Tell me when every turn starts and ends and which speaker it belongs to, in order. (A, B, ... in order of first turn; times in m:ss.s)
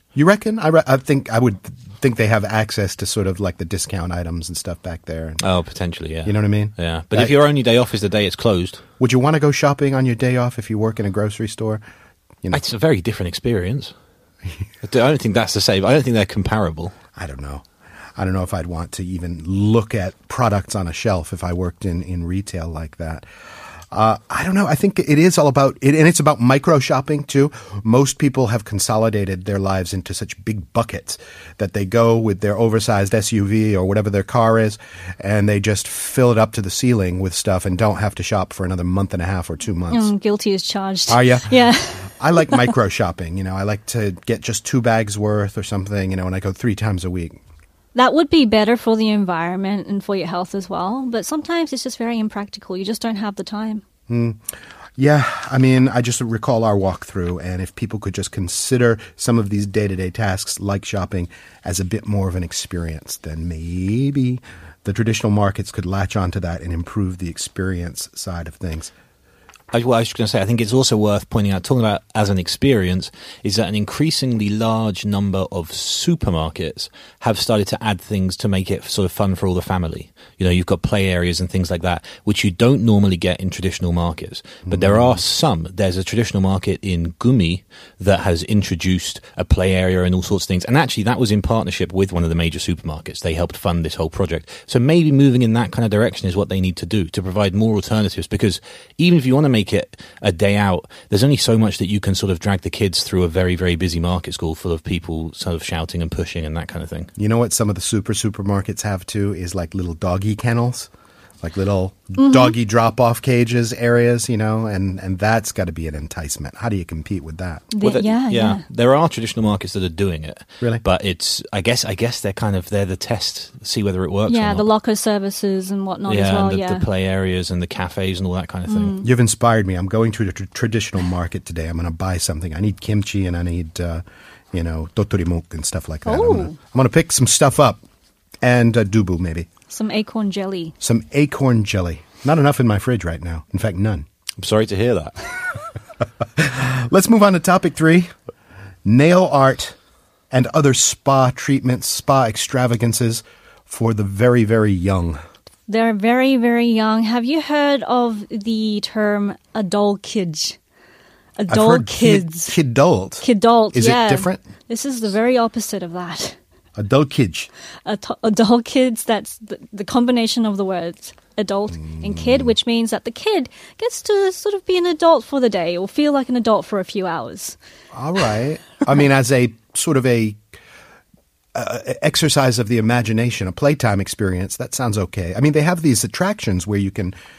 0:00.1-0:05.4 A
0:05.4-0:08.8 B
0:06.2-0:07.3 A
0:09.0-0:11.8 A
0:12.5-0:13.9 B
0:14.8-0:16.9 B
0:17.2-0:17.6 A
0:18.2-0:23.2 A
0:23.9-0:40.1 A
0:39.9-0:42.7 C
0:41.1-0:47.4 A
0:47.9-0:53.8 C
0:54.1-0:54.4 A
0:55.0-1:08.9 A
1:09.7-1:47.1 B
1:24.6-1:25.2 A
1:47.2-1:50.9 A
1:51.4-1:57.7 A
1:52.2-1:52.5 C
1:57.7-1:58.6 C
1:57.8-2:04.7 B
2:04.3-2:06.8 C
2:06.1-2:09.0 B
2:08.7-2:09.0 C
2:09.0-2:17.8 A
2:16.0-2:16.6 C
2:18.4-2:19.5 A
2:19.7-2:20.7 C
2:20.8-2:24.0 A
2:24.4-2:25.1 B
2:26.4-2:28.1 A
2:28.8-2:29.8 A
2:30.3-2:35.2 A
2:35.7-2:40.6 C
2:41.4-2:42.5 C
2:41.5-2:44.4 A
2:43.2-2:46.4 C
2:46.8-2:47.5 A
2:47.8-2:57.6 C
2:51.8-2:52.5 A
2:57.9-3:00.4 A
3:01.5-3:07.2 A